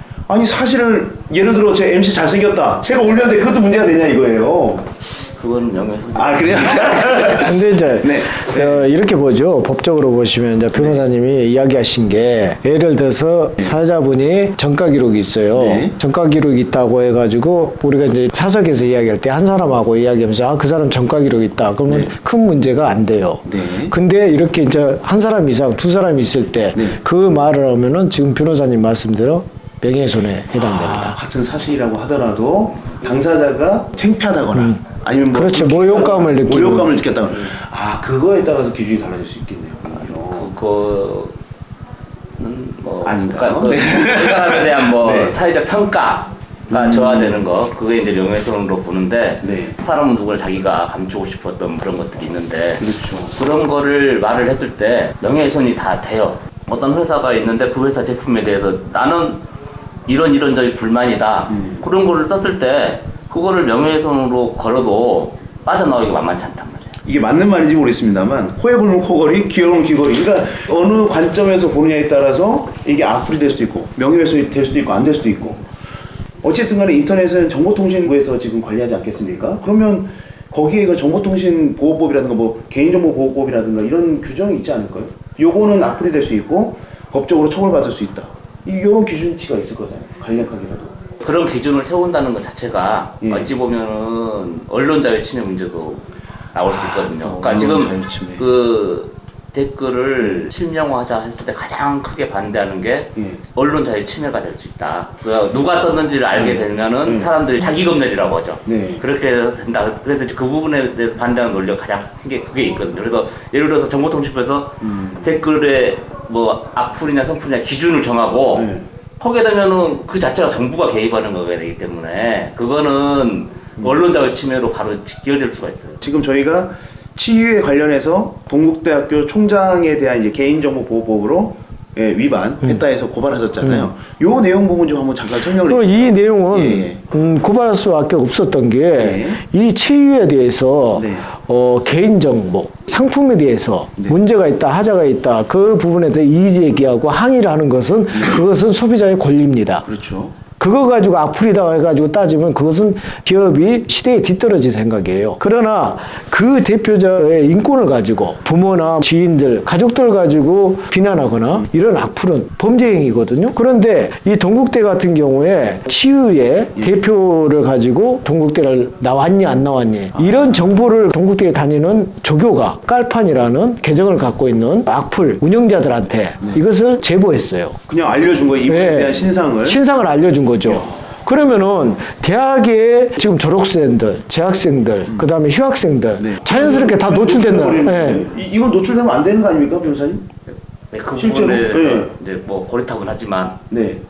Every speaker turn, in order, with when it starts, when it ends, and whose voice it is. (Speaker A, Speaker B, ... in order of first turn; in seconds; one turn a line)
Speaker A: 0.3-4.9
Speaker B: 5.2-7.3
Speaker A: 6.2-8.9
Speaker C: 7.3-31.2
Speaker A: 15.5-15.9
Speaker A: 21.9-22.1
Speaker A: 23.4-23.9
Speaker A: 30.5-40.5
Speaker C: 34.5-34.8
Speaker C: 35.3-37.0
Speaker B: 40.2-41.4
Speaker B: 42.4-59.4
Speaker A: 43.0-45.4
Speaker A: 46.7-47.4
Speaker A: 49.4-49.8
Speaker A: 52.8-53.4
Speaker B: 60.1-66.9
Speaker A: 61.5-61.8
Speaker A: 67.0-75.7
Speaker A: 76.4-91.0
Speaker B: 91.2-126.0
Speaker A: 93.2-93.5
Speaker A: 96.7-98.5
Speaker A: 103.2-103.4
Speaker A: 106.3-107.3
Speaker A: 108.7-109.0
Speaker A: 114.8-115.3
Speaker A: 118.5-118.8
Speaker A: 126.0-137.0
Speaker C: 133.6-133.9
Speaker C: 135.5-149.9
Speaker A: 139.0-139.4
Speaker A: 140.9-141.3
Speaker A: 149.8-150.4
Speaker C: 150.6-177.8
Speaker A: 170.1-170.7
Speaker A: 177.9-179.8
Speaker C: 178.7-188.3
Speaker A: 180.7-181.0
Speaker A: 186.2-190.5
Speaker B: 190.9-193.6
Speaker A: 191.2-192.1
Speaker A: 193.7-194.0